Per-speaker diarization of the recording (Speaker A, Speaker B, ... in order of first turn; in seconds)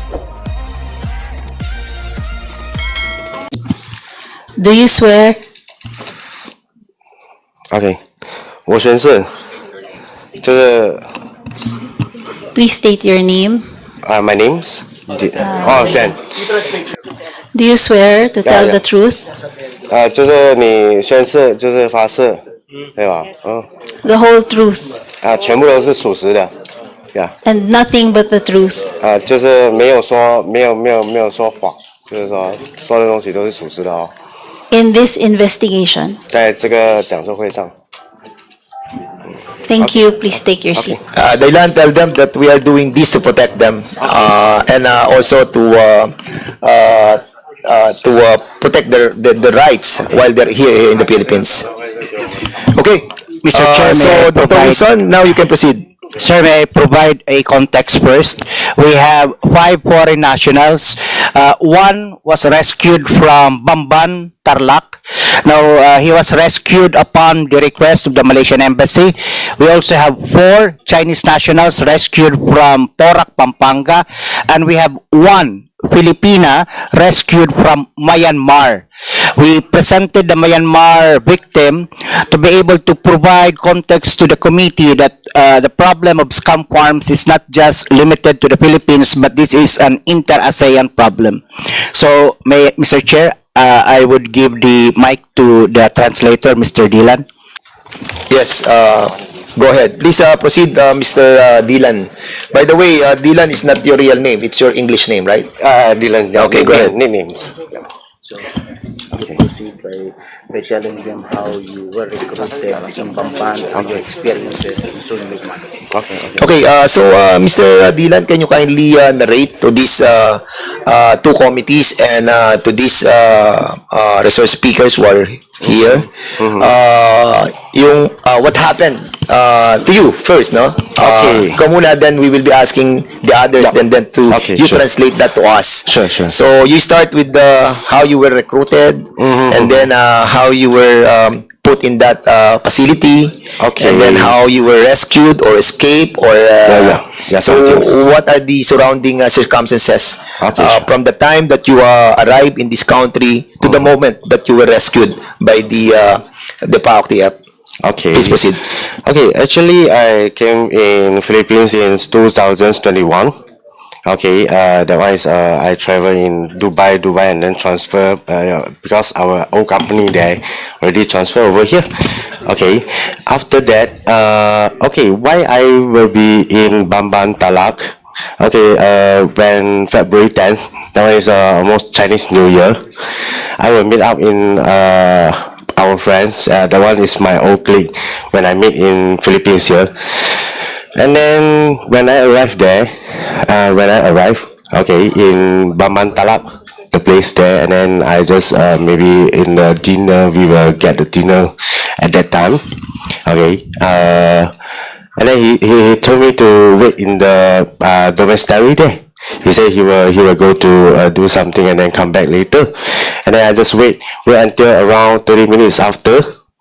Speaker A: 4.6-5.4, 12.5-13.7, 17.5-19.2, 24.0-24.9, 27.4-28.9, 34.7-36.2, 39.6-41.0
Speaker B: 7.7-8.0, 8.7-9.3, 10.4-11.1, 14.0-16.2, 18.4-18.8, 19.9-22.4, 22.9-23.7, 25.2-26.5, 29.0-34.1, 36.3-37.7, 39.8-41.0, 105.6-107.7, 115.9-116.5, 125.6-126.7, 131.0-131.6, 133.6-134.8, 135.8-136.3, 139.2-139.9, 143.6-144.3, 146.6-148.0, 150.4-150.8, 153.6-153.9, 157.8-163.3, 164.0-202.7, 203.2-204.5, 205.2-216.3
Speaker C: 41.1-51.6, 52.6-55.9, 98.3-105.5, 106.3-106.9, 116.4-157.4, 158.1-158.6
Speaker D: 53.4-54.8, 56.2-78.8, 79.3-91.4, 91.9-97.2
Speaker E: 109.2-115.7